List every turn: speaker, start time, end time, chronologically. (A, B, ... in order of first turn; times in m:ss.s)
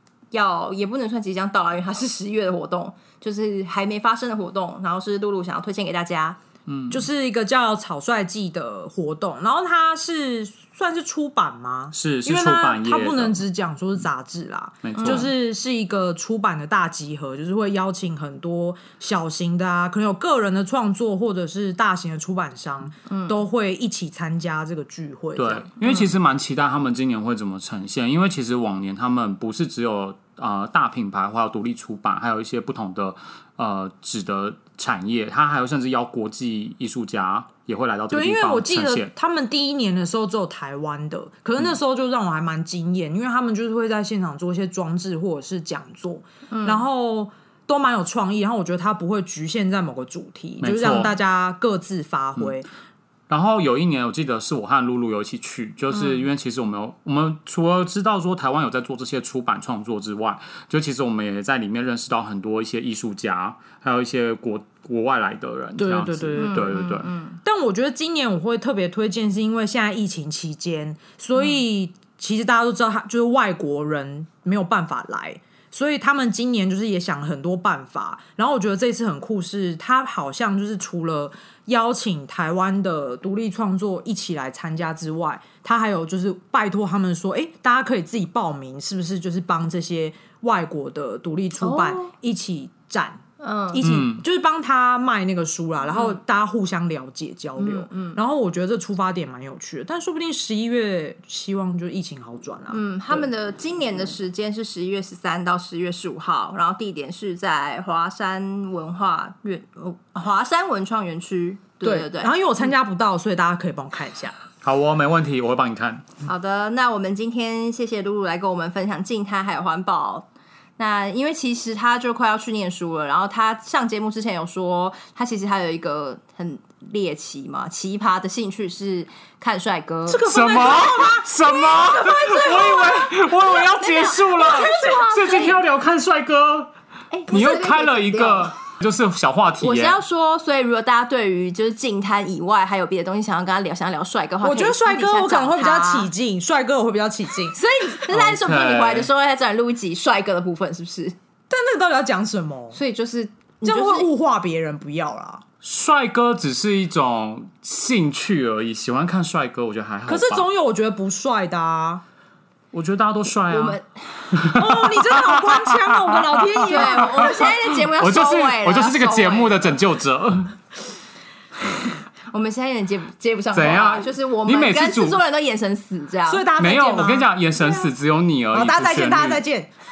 0:00.3-0:06.4 A
0:06.7-0:07.0 B
0:06.9-0:25.7 C
0:11.9-0:13.4 B
0:14.8-0:15.3 B
0:15.0-0:15.2 A
0:23.1-0:23.4 A
0:25.4-0:39.1 B
0:38.1-0:52.7 C
0:46.5-0:46.8 A
0:50.6-0:51.1 B
0:53.3-1:07.1 B
0:56.0-0:56.2 A
1:05.8-1:06.9 C
1:06.4-1:07.4 A
1:07.4-1:43.3 C
1:31.6-1:32.1 A
1:33.4-1:33.8 A
1:33.8-1:34.2 B
1:37.6-1:38.2 A
1:42.7-1:52.4 A
1:51.8-1:54.4 C
1:54.6-1:56.1 B
1:56.2-2:00.3 A
2:00.8-2:10.3 A
2:10.1-2:11.3 C
2:10.3-2:16.7 B
2:11.4-2:15.6 A
2:14.5-2:14.9 C
2:17.1-2:18.5 A
2:17.3-2:20.0 B
2:19.6-2:26.1 A
2:24.4-2:27.6 C
2:27.5-2:31.2 A
2:28.1-2:29.1 B
2:31.5-2:32.8 C
2:32.7-2:34.1 A
2:33.6-2:35.4 C
2:35.6-2:40.5 B
2:40.1-2:42.0 C
2:42.7-2:43.8 B
2:43.5-2:44.3 A
2:44.3-2:50.6 B
2:44.5-2:47.3 C
2:46.6-2:49.8 A
2:52.3-2:56.5 A
2:53.5-2:55.2 B
2:56.3-2:57.8 C
2:56.6-2:59.4 B
2:58.5-2:59.7 C